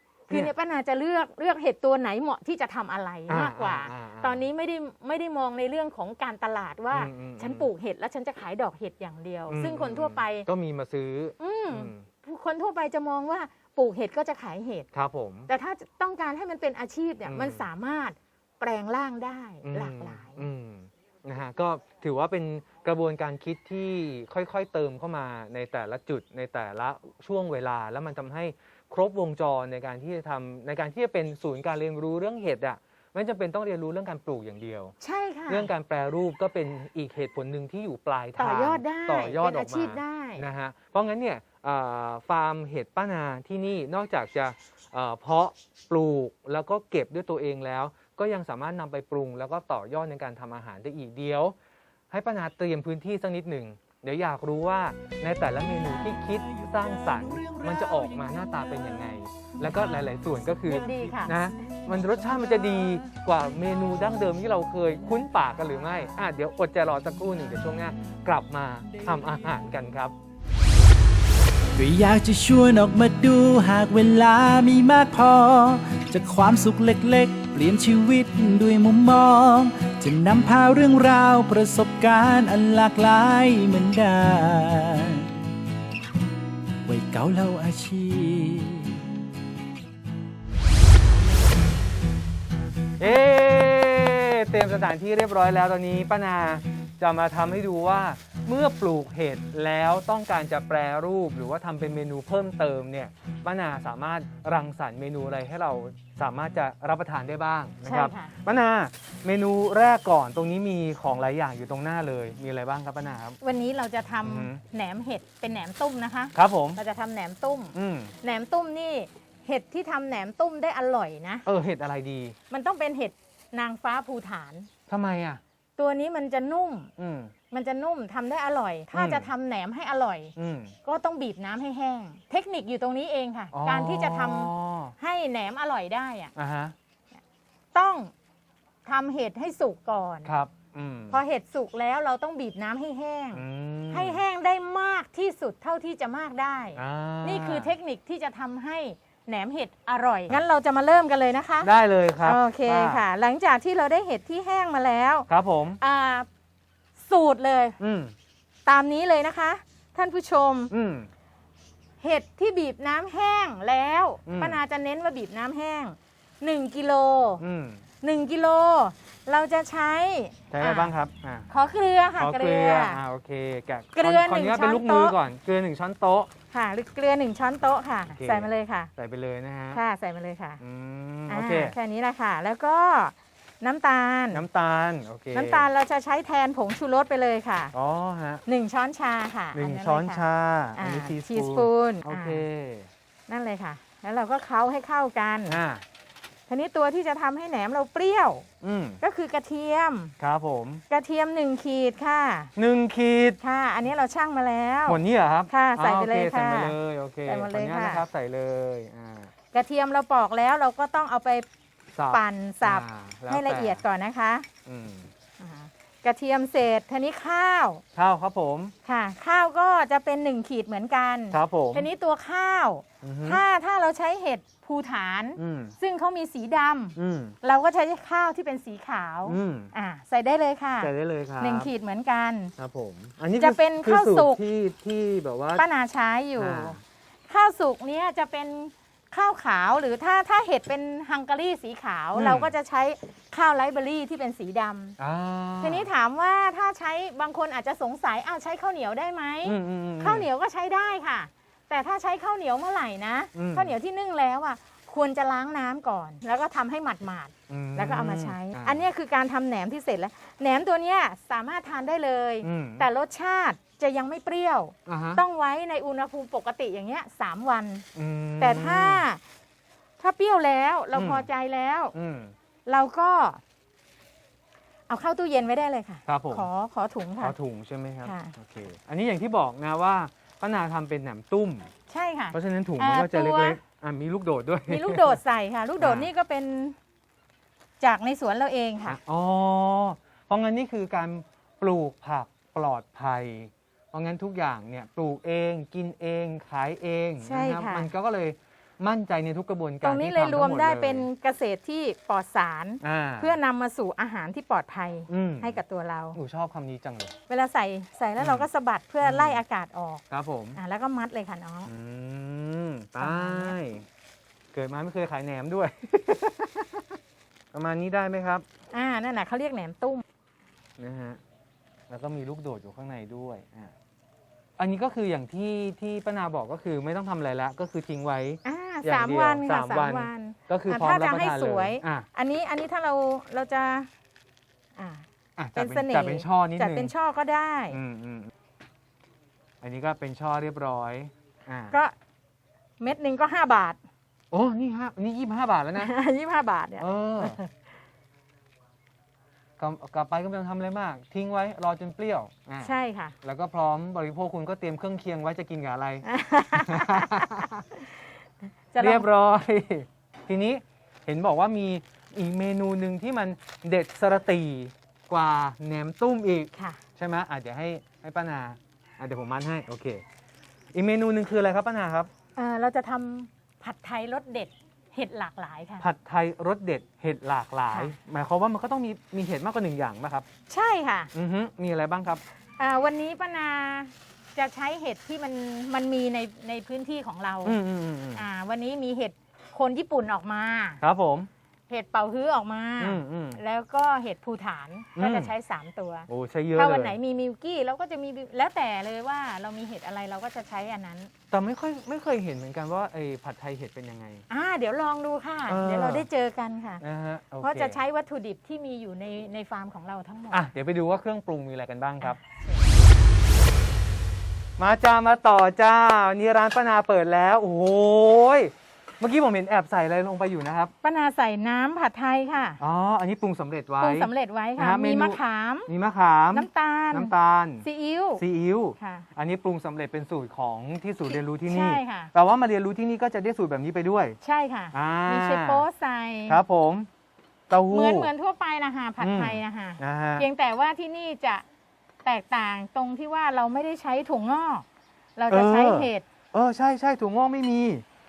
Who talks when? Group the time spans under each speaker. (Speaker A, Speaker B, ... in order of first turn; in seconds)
Speaker A: 0.3-10.5, 11.4-14.9, 15.5-20.4, 35.0-35.7, 38.4-40.4, 60.7-61.5, 107.8-108.4, 113.4-121.5, 122.5-124.7, 125.8-126.9, 127.5-136.3, 137.7-138.1, 138.8-140.3, 141.1-151.7, 152.2-155.3, 155.8-156.3, 157.0-157.8, 158.7-160.7, 162.0-167.4, 168.0-170.9, 171.5-173.0, 173.9-175.2, 176.5-178.9, 179.7-180.6, 181.3-184.4, 185.3-187.7, 188.4-190.2, 190.8-192.4, 193.3-195.6, 196.5-198.5, 199.0-200.1, 200.9-202.5, 203.4-208.0, 209.5-211.5, 212.1-214.5, 215.4-217.8, 218.8-232.5, 233.4-234.4, 235.6-245.0, 245.6-267.9, 268.4-269.2, 270.0-271.9, 272.6-273.4, 274.9-277.4, 278.0-278.3, 281.9-283.6, 284.7-286.8, 287.8-289.0, 297.2-297.9, 299.8-306.2, 307.3-310.0, 310.5-311.7, 313.0-313.6, 318.7-320.0, 328.4-333.9, 334.8-337.8, 342.8-343.8, 345.8-347.5, 352.6-353.1, 356.0-357.9, 358.7-359.1, 366.5-366.8, 372.4-375.9, 380.5-381.1, 382.6-387.6, 388.1-390.8, 391.7-401.1, 404.3-406.8, 407.4-410.4, 412.0-412.6, 420.8-422.6, 423.8-425.7, 426.3-428.2, 428.8-429.1, 431.1-432.1, 434.2-436.4, 437.7-441.4, 442.0-444.6, 445.2-446.0
Speaker B: 3.3-4.4, 6.9-7.7, 9.5-12.1, 14.9-15.5, 17.2-17.6, 19.6-34.9, 35.5-51.5, 52.1-70.1, 93.0-113.4, 114.2-114.6, 116.3-116.8, 117.7-118.1, 121.4-122.3, 124.9-125.4, 127.0-127.3, 128.9-129.3, 130.3-130.8, 133.5-134.9, 136.3-136.7, 140.2-141.2, 143.3-144.2, 146.7-147.7, 151.6-153.0, 155.3-155.8, 157.8-158.1, 160.7-161.1, 164.3-164.6, 167.4-167.8, 170.5-171.5, 172.2-176.3, 178.1-179.8, 180.6-181.8, 184.3-185.7, 187.7-188.4, 189.5-192.9, 195.5-195.8, 198.6-199.0, 200.2-200.8, 202.6-203.4, 204.9-209.3, 211.9-213.8, 214.7-215.1, 217.9-218.7, 221.3-221.9, 223.0-223.4, 225.4-225.8, 226.9-227.3, 229.3-229.7, 230.8-231.7, 232.6-235.6, 236.4-236.8, 242.1-242.5, 245.0-245.9, 249.4-250.3, 253.3-253.8, 257.5-258.8, 262.4-262.9, 264.9-265.2, 267.9-269.0, 270.9-271.3, 271.9-272.3, 276.1-276.5, 277.2-281.7, 282.3-285.2, 285.8-286.1, 288.9-301.1, 302.8-303.4, 305.1-305.6, 306.1-307.1, 308.2-308.5, 309.0-309.4, 310.1-310.6, 311.7-313.9, 314.5-316.6, 317.5-318.4, 320.8-321.2, 321.9-323.7, 324.6-332.1, 335.4-336.9, 337.7-338.3, 339.6-341.8, 344.3-345.9, 346.8-347.4, 349.6-357.6, 358.8-370.0, 370.7-372.1, 375.8-380.3, 381.1-382.2, 387.4-388.2, 390.8-391.3, 392.8-393.4, 394.9-395.3, 396.1-397.0, 401.3-404.2, 405.5-406.1, 406.8-407.8, 410.3-412.2, 414.6-420.7, 422.6-427.6, 428.2-434.2, 434.7-435.6, 436.3-436.9, 437.5-438.1, 439.0-440.3, 445.3-447.8
Speaker C: 55.8-58.6, 60.6-61.0, 61.6-62.6, 71.8-85.3, 86.8-89.0